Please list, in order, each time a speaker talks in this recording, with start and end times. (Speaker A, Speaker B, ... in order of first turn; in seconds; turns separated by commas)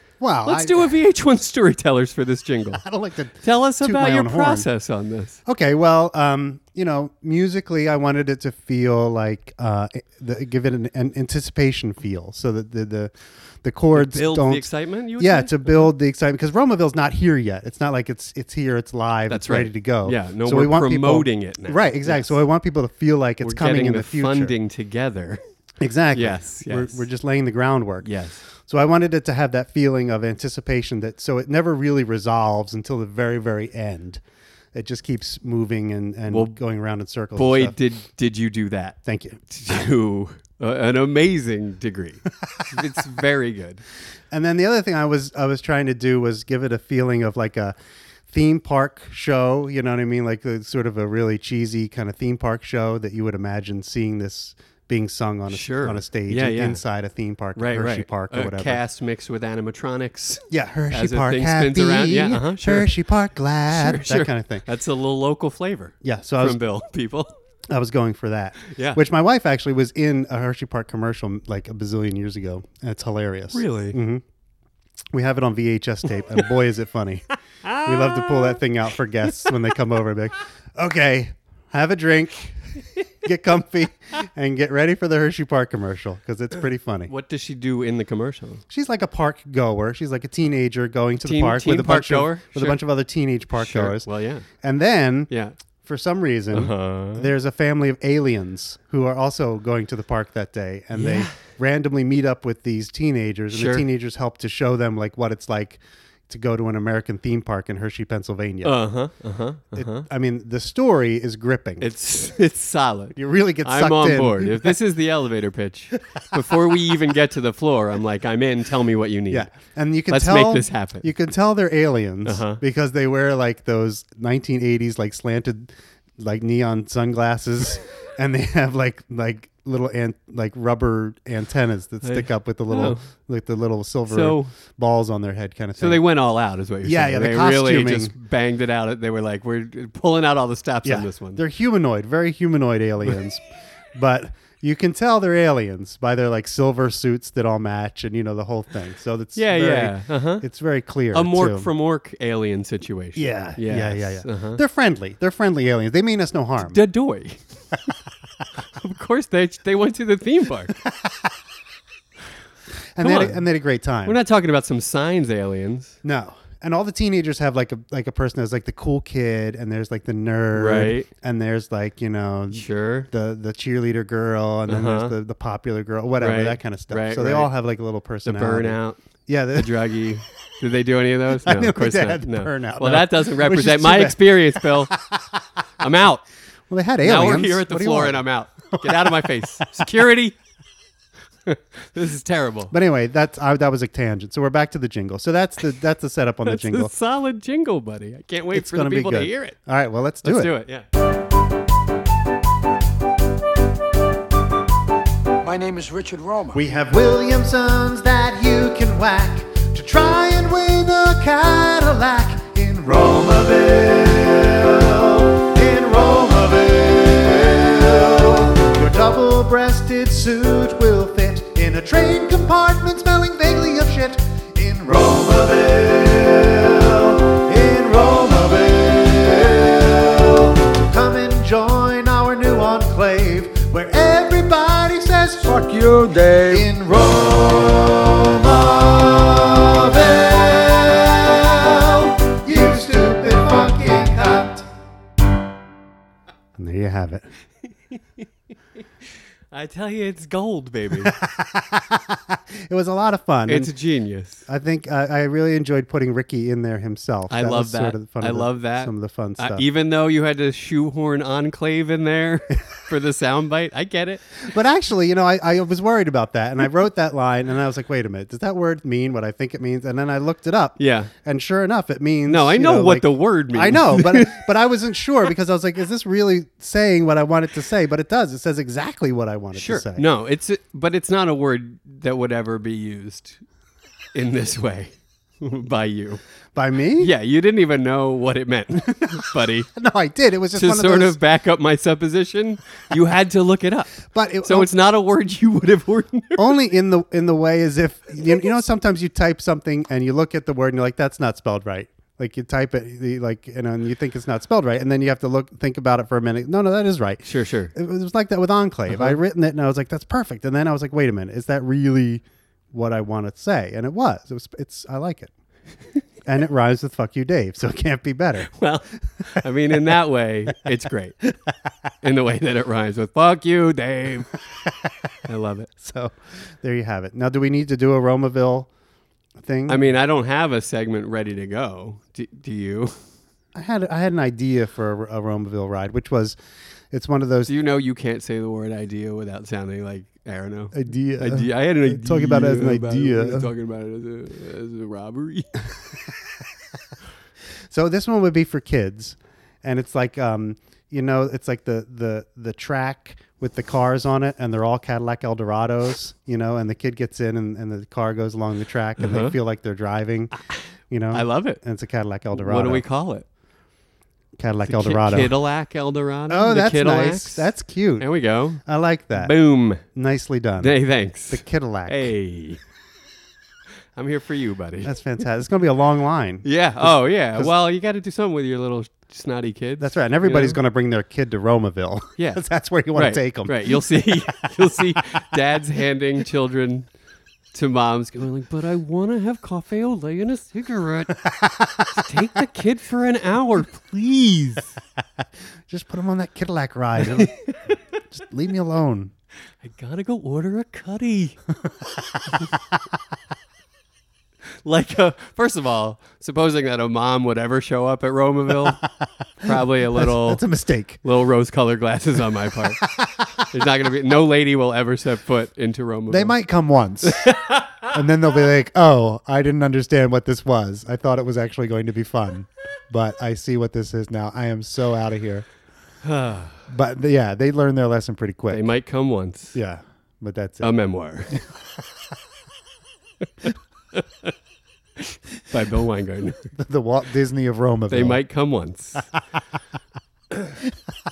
Speaker A: 0.2-0.9, Speaker B: 0.5-2.8, Speaker A: 2.8-4.7, Speaker B: 3.4-5.4, Speaker A: 5.5-14.7, Speaker B: 13.9-15.9, Speaker A: 15.2-24.5, Speaker B: 19.3-22.4, Speaker B: 23.4-25.4, Speaker A: 25.8-28.1, Speaker B: 26.1-27.0, Speaker B: 28.0-28.4, Speaker A: 28.6-34.2, Speaker A: 34.7-37.7, Speaker B: 36.3-36.5, Speaker B: 37.4-43.8, Speaker A: 39.0-39.4, Speaker A: 44.3-47.7, Speaker A: 48.3-58.8, Speaker B: 55.5-56.8, Speaker B: 57.5-62.9, Speaker A: 60.5-64.6, Speaker B: 63.7-67.3, Speaker A: 66.0-66.6, Speaker A: 67.7-74.2, Speaker B: 68.6-69.0, Speaker B: 73.5-74.0, Speaker A: 75.1-77.3, Speaker B: 77.6-78.6, Speaker A: 77.8-87.1, Speaker B: 87.1-88.6, Speaker A: 88.7-94.1, Speaker B: 91.2-92.8, Speaker B: 93.6-94.5, Speaker A: 94.6-95.3, Speaker B: 95.3-95.6, Speaker A: 95.8-108.8, Speaker B: 96.5-97.3, Speaker B: 100.9-101.4, Speaker B: 103.5-103.8, Speaker B: 108.6-110.1, Speaker A: 109.7-111.9, Speaker B: 111.8-119.5, Speaker A: 113.1-114.8, Speaker A: 119.3-136.0, Speaker B: 120.1-121.1, Speaker B: 122.2-122.6, Speaker B: 132.0-133.0, Speaker B: 134.1-134.5, Speaker B: 135.8-141.4, Speaker A: 136.8-138.1, Speaker A: 140.8-151.7, Speaker B: 149.3-150.4, Speaker B: 151.1-154.6, Speaker A: 153.1-156.8, Speaker B: 156.6-157.4, Speaker B: 158.6-160.8, Speaker A: 161.0-161.3, Speaker A: 162.9-164.2, Speaker B: 163.0-163.4, Speaker B: 164.1-165.9, Speaker A: 166.0-179.7, Speaker B: 170.5-171.1, Speaker B: 172.5-173.1, Speaker B: 174.7-175.1, Speaker B: 176.2-177.5, Speaker B: 178.2-179.0, Speaker B: 179.6-184.9, Speaker A: 181.3-185.4, Speaker B: 185.8-186.2, Speaker A: 186.7-189.5, Speaker B: 187.0-190.4, Speaker B: 191.4-192.7, Speaker A: 192.7-196.9, Speaker B: 196.4-199.5, Speaker A: 198.5-200.5, Speaker B: 200.2-200.8, Speaker C: 205.4-206.6, Speaker A: 206.5-235.6, Speaker C: 235.4-236.7, Speaker A: 236.5-244.7, Speaker A: 246.6-247.2, Speaker B: 249.5-251.2, Speaker A: 251.0-253.7, Speaker B: 253.5-254.4, Speaker A: 254.5-259.6, Speaker B: 257.3-264.2, Speaker A: 264.4-280.1, Speaker B: 270.8-271.1, Speaker B: 272.3-274.4, Speaker B: 279.5-283.4, Speaker B: 284.1-286.2, Speaker A: 286.5-287.1, Speaker B: 287.0-289.7, Speaker A: 288.9-291.2, Speaker B: 290.5-296.4, Speaker A: 294.1-294.7, Speaker A: 296.4-307.2, Speaker B: 307.2-307.7, Speaker A: 307.7-315.3, Speaker B: 308.9-309.2, Speaker A: 316.2-318.5, Speaker B: 318.5-321.2, Speaker B: 322.0-324.4, Speaker B: 325.2-325.7, Speaker A: 325.8-328.7, Speaker A: 329.4-329.9, Speaker B: 329.7-333.0, Speaker A: 333.5-336.4, Speaker A: 336.9-337.5, Speaker B: 337.4-345.6, Speaker A: 340.7-343.5, Speaker A: 347.7-360.3, Speaker B: 359.0-359.4, Speaker B: 360.4-361.6, Speaker A: 360.9-362.8, Speaker B: 362.3-363.2, Speaker A: 364.4-365.3, Speaker B: 364.6-368.6, Speaker A: 366.3-368.1, Speaker A: 368.6-369.3, Speaker B: 369.1-369.8, Speaker A: 369.8-370.8, Speaker B: 370.6-372.6, Speaker A: 371.3-372.1, Speaker B: 373.9-374.9, Speaker A: 374.8-377.5, Speaker B: 376.4-380.6, Speaker A: 379.8-383.9, Speaker B: 382.2-382.4, Speaker B: 382.9-386.9, Speaker B: 387.5-391.2, Speaker A: 391.2-391.9, Speaker B: 391.9-394.8, Speaker A: 395.7-397.3, Speaker A: 398.1-399.1, Speaker B: 399.6-401.4, Speaker B: 404.6-408.8, Speaker B: 409.4-410.4, Speaker A: 409.4-411.0, Speaker B: 411.0-412.8, Speaker A: 413.0-413.4, Speaker B: 413.4-416.3, Speaker A: 416.1-417.3, Speaker B: 417.0-417.9, Speaker A: 417.9-425.4, Speaker B: 426.0-426.6, Speaker A: 426.7-428.6, Speaker B: 428.5-429.6, Speaker A: 429.5-430.7, Speaker B: 430.6-431.4, Speaker B: 433.4-434.3, Speaker B: 435.0-436.5, Speaker A: 436.5-438.2, Speaker B: 437.9-439.1